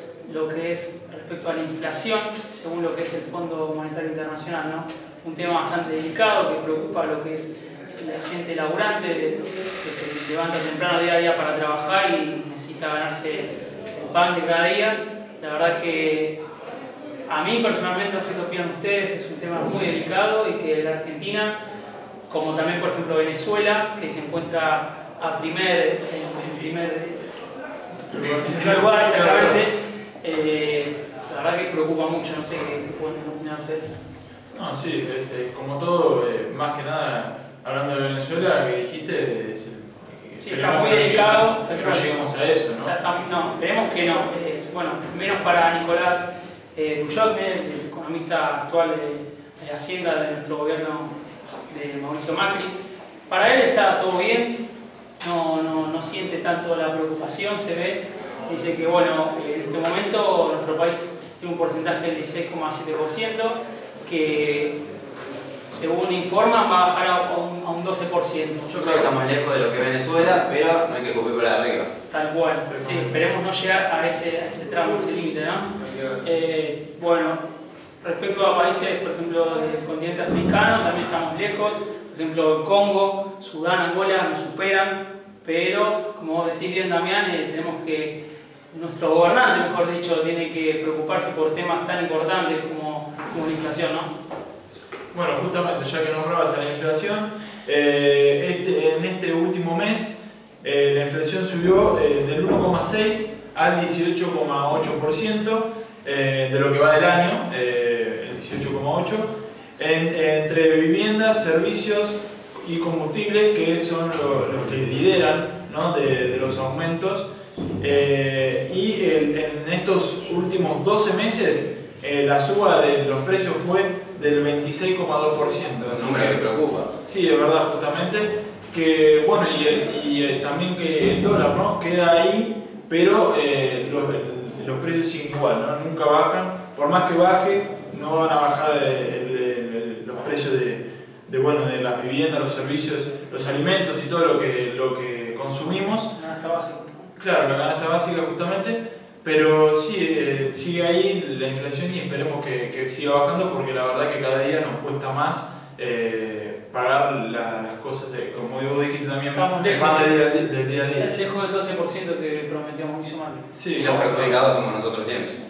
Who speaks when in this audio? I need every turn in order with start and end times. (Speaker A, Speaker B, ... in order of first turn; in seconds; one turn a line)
Speaker A: 0.2-16.4
Speaker A: 17.3-21.5
Speaker A: 22.3-27.4
Speaker B: 28.1-29.6
Speaker A: 28.2-33.9
Speaker B: 34.5-43.0
Speaker A: 40.4-42.2
Speaker A: 42.8-51.1
Speaker A: 51.7-52.8
Speaker A: 53.3-54.6
Speaker A: 55.2-64.8
Speaker A: 65.7-68.7
Speaker C: 68.7-71.9
Speaker A: 72.1-75.7
Speaker B: 72.7-73.1
Speaker A: 76.2-77.4
Speaker A: 78.0-88.2
Speaker A: 88.7-94.1
Speaker B: 95.1-117.3
Speaker B: 117.8-146.1
Speaker C: 125.9-126.9
Speaker A: 146.1-147.1
Speaker B: 147.2-161.1
Speaker A: 159.3-160.2
Speaker A: 160.9-163.5
Speaker B: 163.5-164.4
Speaker C: 163.7-165.4